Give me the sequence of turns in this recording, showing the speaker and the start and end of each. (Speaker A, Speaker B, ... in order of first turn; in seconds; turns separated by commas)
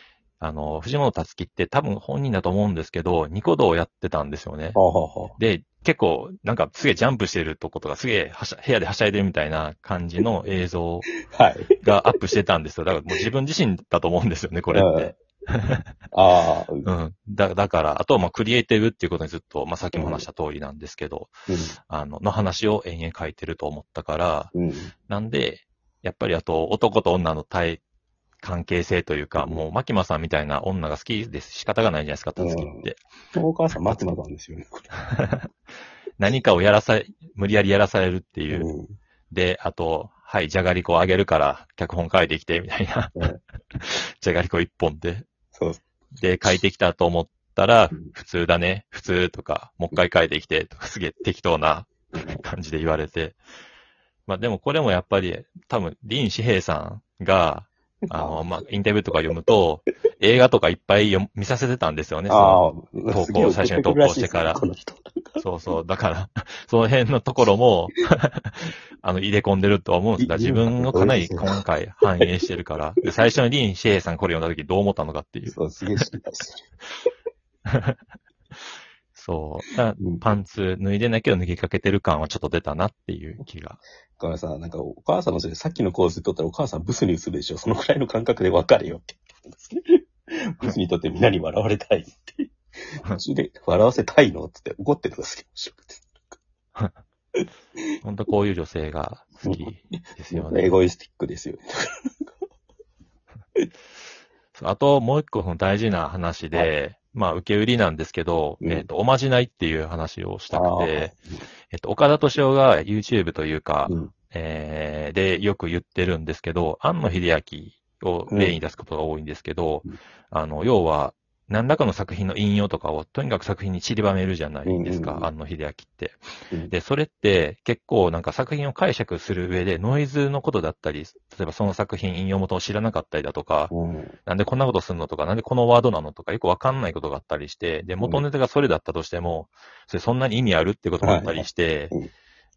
Speaker A: 0.4-4.8, Speaker B: 4.8-5.3, Speaker A: 5.4-11.2, Speaker B: 11.2-11.8, Speaker A: 11.8-15.9, Speaker B: 14.7-15.2, Speaker B: 16.1-16.9, Speaker A: 16.8-21.3, Speaker B: 19.9-20.2, Speaker B: 21.5-21.8, Speaker A: 21.9-24.5, Speaker B: 24.5-24.9, Speaker A: 25.1-27.8, Speaker A: 28.4-33.0, Speaker B: 29.4-29.7, Speaker B: 32.4-34.9, Speaker A: 33.7-34.2, Speaker A: 35.0-35.5, Speaker A: 36.2-38.7, Speaker B: 38.5-38.9, Speaker A: 39.3-45.3, Speaker B: 45.5-45.8, Speaker A: 46.2-53.4, Speaker B: 52.1-52.4, Speaker A: 54.3-64.6, Speaker B: 58.1-58.4, Speaker B: 62.3-65.5, Speaker A: 65.4-76.1, Speaker B: 70.2-71.5, Speaker B: 75.5-76.7, Speaker A: 77.7-78.0, Speaker A: 79.1-83.8, Speaker B: 84.2-92.5, Speaker B: 93.0-96.2, Speaker A: 98.0-100.8, Speaker B: 100.3-102.1, Speaker A: 104.5-111.1, Speaker B: 110.5-111.4, Speaker A: 111.7-133.7, Speaker B: 113.9-114.1, Speaker B: 118.3-118.6, Speaker B: 124.7-125.3, Speaker B: 133.7-134.1, Speaker A: 134.3-141.9, Speaker B: 141.0-142.1